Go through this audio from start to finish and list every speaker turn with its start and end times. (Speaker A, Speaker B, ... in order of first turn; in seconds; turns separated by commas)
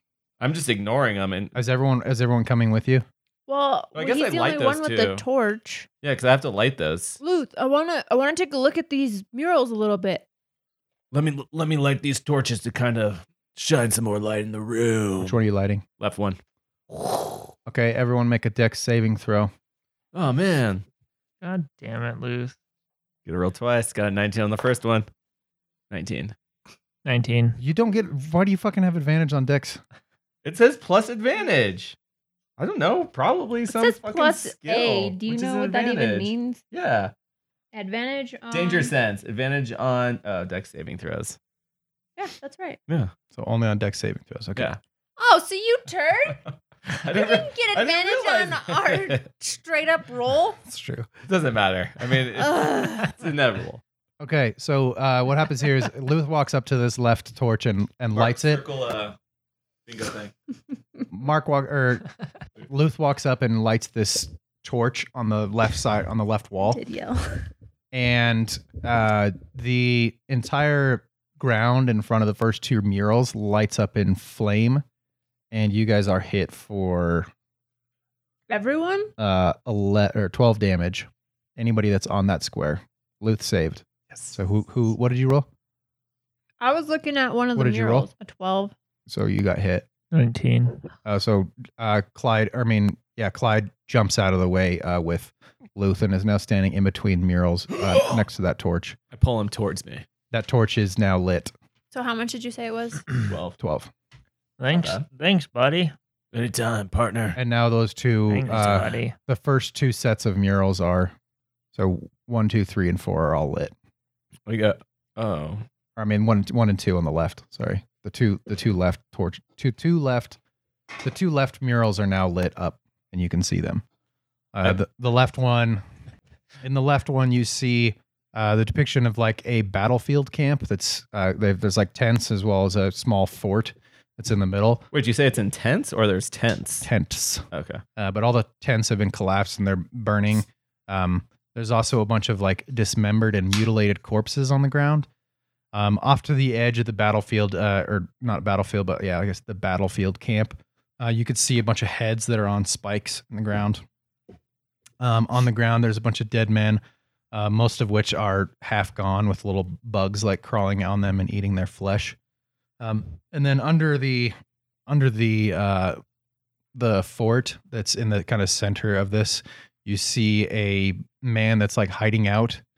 Speaker A: 0.4-1.5, Speaker B: 1.5-3.0, Speaker C: 3.5-5.9, Speaker A: 4.0-5.2, Speaker A: 6.0-7.2, Speaker C: 7.2-10.2, Speaker A: 11.1-15.4, Speaker B: 15.2-15.8, Speaker A: 16.0-16.4, Speaker A: 16.9-17.5, Speaker B: 17.6-19.5, Speaker A: 20.1-20.9, Speaker D: 21.4-22.6, Speaker A: 23.3-25.1, Speaker A: 25.9-26.3, Speaker D: 27.1-27.6, Speaker B: 27.6-29.8, Speaker A: 30.4-32.0, Speaker A: 32.6-37.1, Speaker C: 33.7-36.6, Speaker C: 37.7-38.9, Speaker A: 38.5-41.4, Speaker C: 42.2-42.8, Speaker B: 43.3-44.7, Speaker C: 45.2-46.4, Speaker A: 46.9-49.2, Speaker C: 47.0-50.6, Speaker B: 50.6-51.1, Speaker A: 51.3-53.8, Speaker C: 52.4-53.1, Speaker B: 54.2-58.6, Speaker A: 58.1-59.1, Speaker A: 59.9-60.3, Speaker B: 61.1-62.1, Speaker B: 62.6-66.8, Speaker C: 66.6-67.5, Speaker B: 67.9-74.8, Speaker B: 75.5-77.3, Speaker C: 78.5-79.1, Speaker B: 79.2-85.5, Speaker C: 86.6-88.7, Speaker B: 87.5-88.1, Speaker B: 89.1-89.9, Speaker D: 90.1-90.8, Speaker B: 91.0-99.0, Speaker A: 97.7-98.2, Speaker A: 99.1-100.0, Speaker B: 100.3-101.5, Speaker C: 101.9-103.1, Speaker A: 103.2-103.6, Speaker B: 103.6-103.9, Speaker D: 104.6-105.9, Speaker A: 104.7-105.0, Speaker A: 106.3-107.4, Speaker B: 107.4-111.1, Speaker D: 108.3-109.1, Speaker A: 108.5-109.0, Speaker B: 111.8-113.7, Speaker A: 114.5-115.6, Speaker B: 116.0-120.4, Speaker B: 121.0-123.8, Speaker B: 124.5-125.8, Speaker B: 126.6-134.8, Speaker A: 134.9-136.9, Speaker B: 136.8-137.5, Speaker A: 137.5-137.8, Speaker B: 138.0-145.1, Speaker B: 145.7-153.8, Speaker B: 155.0-156.8, Speaker B: 157.3-162.2, Speaker B: 162.8-164.3, Speaker B: 164.9-166.0, Speaker B: 166.7-172.6